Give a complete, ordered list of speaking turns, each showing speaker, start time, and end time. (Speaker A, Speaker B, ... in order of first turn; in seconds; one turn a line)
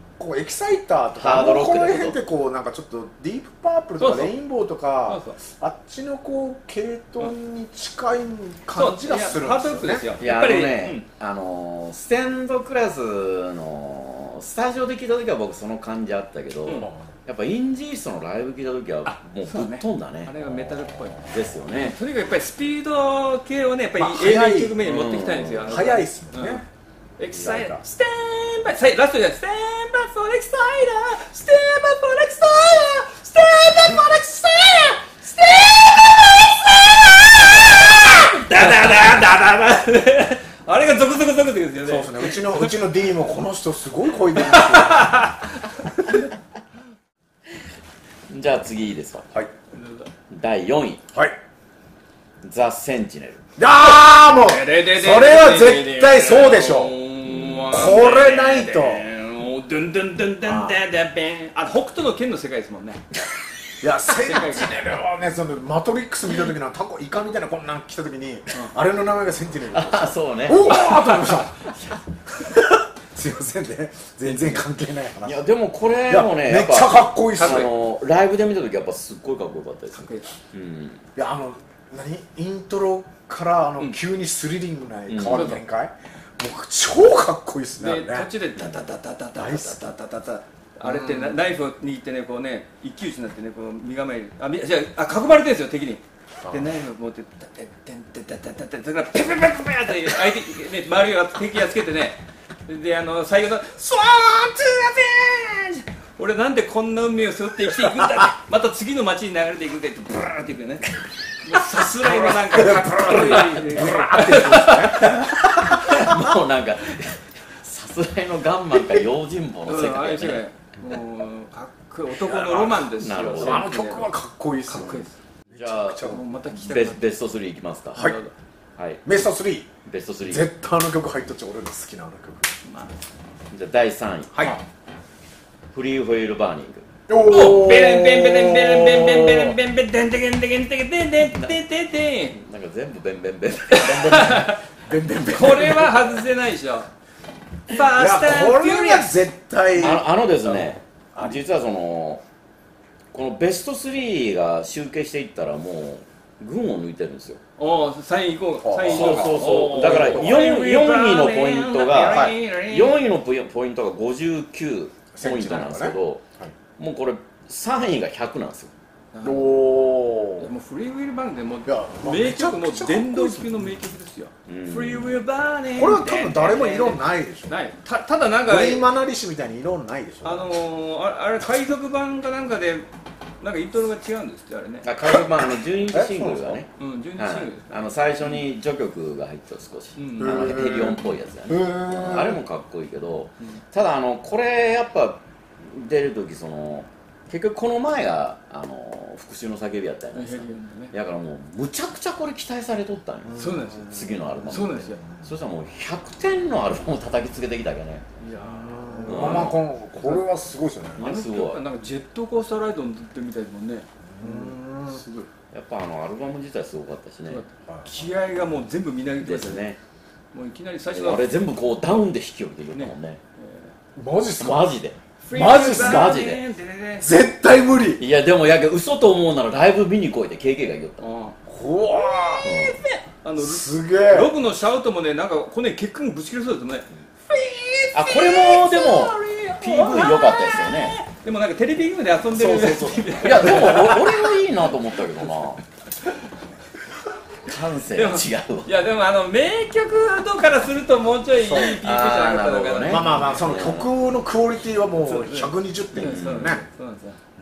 Speaker A: 0.2-10.2
Speaker B: 1.1-2.2
Speaker C: 4.0-4.3
Speaker C: 5.0-5.4
Speaker C: 8.7-11.0
Speaker B: 10.2-20.5
Speaker C: 19.1-26.6
Speaker A: 21.0-21.2
Speaker B: 21.2-22.0
Speaker A: 24.0-25.0
Speaker B: 24.8-25.8
Speaker A: 25.6-26.6
Speaker C: 27.2-42.7
Speaker A: 27.4-27.8
Speaker A: 41.8-45.3
Speaker C: 44.3-46.1
Speaker B: 48.3-49.3
Speaker C: 49.7-50.1
Speaker B: 50.3-51.0
Speaker B: 52.4-53.4
Speaker A: 53.6-57.0
Speaker C: 53.8-63.0
Speaker B: 57.2-57.7
Speaker A: 57.7-59.0
Speaker A: 60.4-60.8
Speaker A: 63.8-71.6
Speaker C: 64.1-64.8
Speaker B: 69.7-70.8
Speaker C: 70.6-71.7
Speaker A: 72.3-75.4
Speaker C: 74.2-74.6
Speaker B: 75.2-81.0
Speaker A: 76.1-77.7
Speaker C: 77.4-77.7
Speaker C: 79.9-80.3
Speaker A: 81.2-88.3
Speaker B: 85.1-85.6
Speaker C: 85.3-85.6
Speaker C: 87.8-115.2
Speaker B: 88.6-88.8
Speaker A: 89.3-89.8
Speaker A: 90.8-91.4
Speaker A: 96.4-96.7
Speaker A: 111.9-116.3
Speaker B: 113.2-113.5
Speaker B: 115.7-120.4
Speaker C: 119.6-124.1
Speaker A: 122.1-126.3
Speaker B: 123.0-123.6
Speaker C: 124.7-125.2
Speaker B: 125.5-128.0
Speaker C: 126.0-127.1
Speaker C: 127.9-128.3
Speaker B: 128.8-129.1
Speaker A: 129.0-129.7
Speaker B: 129.8-130.5
Speaker A: 130.2-132.5
Speaker C: 132.6-132.9
Speaker B: 133.5-134.5
Speaker A: 134.3-134.6
Speaker B: 135.7-136.8
Speaker A: 137.1-139.6
Speaker C: 137.2-142.4
Speaker B: 142.3-144.2
Speaker C: 143.7-144.6
Speaker A: 143.8-146.2
Speaker C: 145.2-146.9
Speaker C: 147.7-149.2
Speaker A: 147.9-151.4
Speaker B: 149.8-152.2
Speaker B: 153.1-157.4
Speaker C: 157.6-163.0
Speaker A: 158.6-160.5
Speaker B: 158.8-166.2
Speaker A: 162.1-162.4
Speaker A: 165.1-166.5
Speaker B: 166.8-168.7
Speaker C: 169.1-169.7
Speaker A: 169.2-170.5
Speaker C: 170.4-178.9
Speaker A: 171.6-173.6
Speaker B: 174.5-175.2
Speaker A: 175.8-177.6
Speaker A: 178.4-180.5
Speaker C: 180.2-182.9
Speaker C: 183.4-184.9
Speaker B: 184.8-208.0
Speaker A: 185.9-186.6
Speaker C: 186.8-188.4
Speaker C: 190.0-190.6
Speaker A: 190.2-192.4
Speaker C: 200.1-200.9
Speaker A: 203.2-204.3
Speaker C: 203.4-203.9
Speaker C: 204.4-205.0
Speaker A: 204.8-205.3
Speaker C: 208.2-210.3
Speaker A: 208.4-211.1
Speaker B: 209.1-209.6
Speaker B: 210.9-211.6
Speaker C: 211.0-215.3
Speaker A: 214.1-215.0
Speaker B: 215.5-217.4
Speaker C: 217.2-219.7
Speaker A: 217.7-218.1
Speaker B: 219.2-219.8
Speaker C: 220.3-221.3
Speaker B: 220.9-223.2
Speaker C: 222.7-223.7
Speaker A: 223.9-224.7
Speaker B: 224.4-224.9
Speaker C: 225.2-227.1
Speaker A: 225.3-226.2
Speaker B: 225.7-226.4
Speaker A: 227.0-228.0
Speaker B: 228.0-231.0
Speaker C: 231.0-231.3
Speaker A: 231.5-232.5
Speaker C: 231.9-244.3
Speaker B: 232.4-232.8
Speaker A: 233.3-234.3
Speaker B: 237.9-240.9
Speaker A: 242.3-243.3
Speaker B: 243.1-245.6
Speaker B: 247.4-248.7
Speaker C: 247.8-253.6
Speaker A: 251.4-251.8
Speaker B: 251.8-253.9
Speaker A: 252.8-256.6
Speaker C: 255.0-257.2
Speaker B: 255.9-256.6